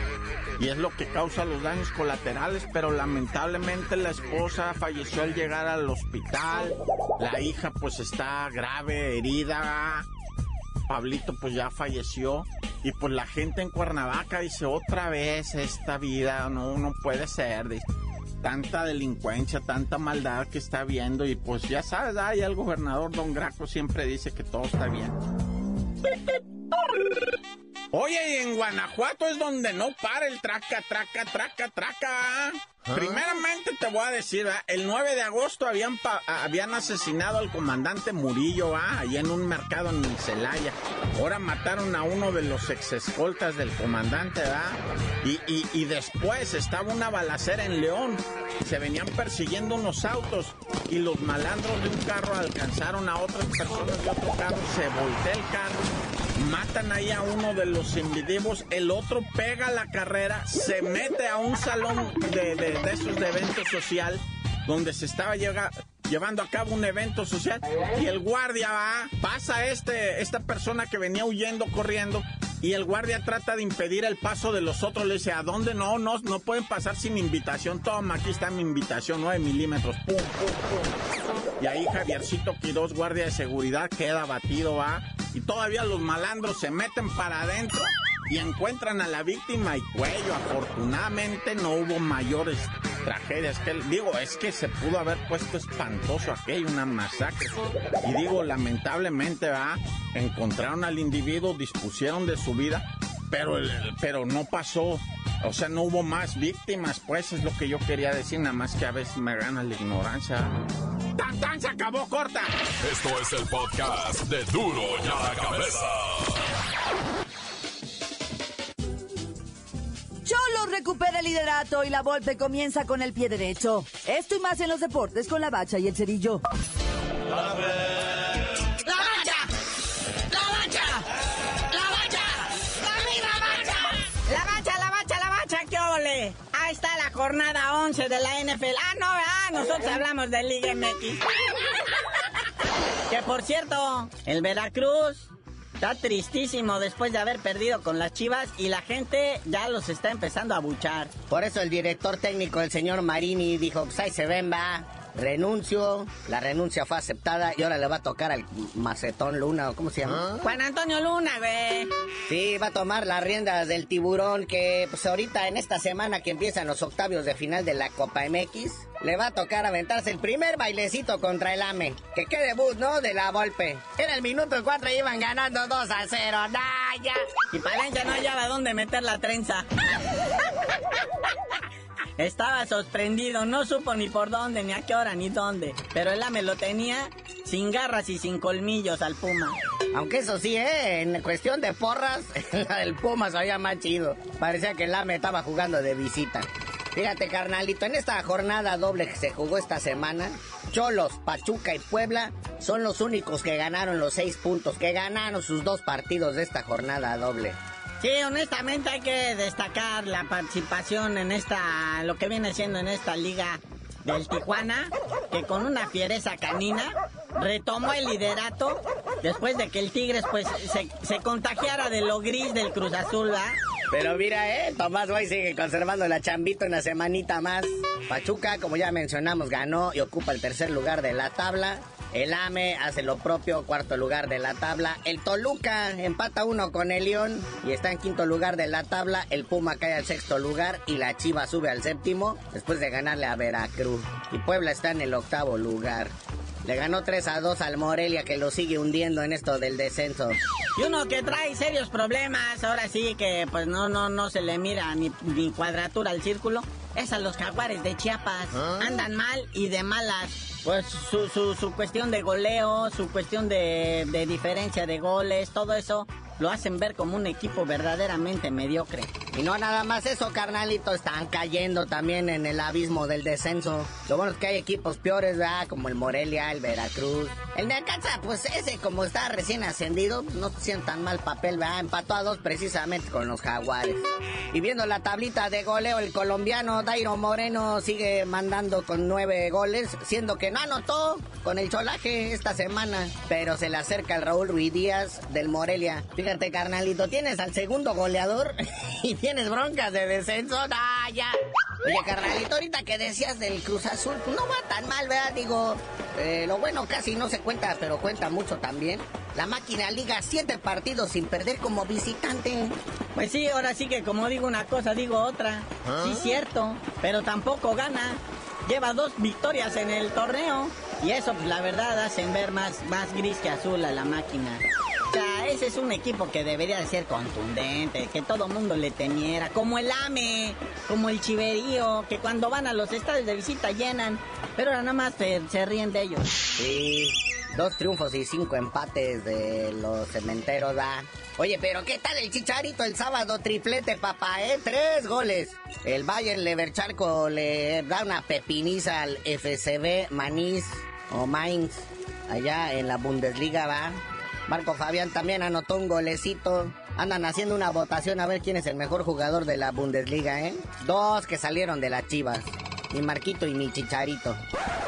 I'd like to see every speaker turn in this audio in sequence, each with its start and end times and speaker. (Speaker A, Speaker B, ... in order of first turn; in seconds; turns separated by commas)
Speaker A: 0.6-10.1, Speaker A: 10.9-17.9, Speaker A: 18.4-25.2, Speaker A: 27.9-55.9, Speaker A: 56.4-80.9, Speaker A: 81.6-110.5, Speaker A: 111.2-112.5, Speaker B: 112.8-116.5, Speaker C: 120.2-126.4, Speaker D: 128.8-129.5, Speaker D: 130.3-131.1, Speaker D: 131.7-141.2, Speaker D: 143.1-151.1, Speaker E: 151.3-160.3, Speaker D: 160.4-161.9, Speaker E: 162.3-177.2, Speaker D: 177.5-179.6, Speaker D: 182.2-189.6, Speaker E: 189.9-207.6, Speaker D: 208.0-223.6, Speaker E: 223.9-250.4, Speaker D: 250.8-269.1, Speaker E: 269.3-312.8, Speaker D: 313.1-336.3, Speaker E: 336.6-364.4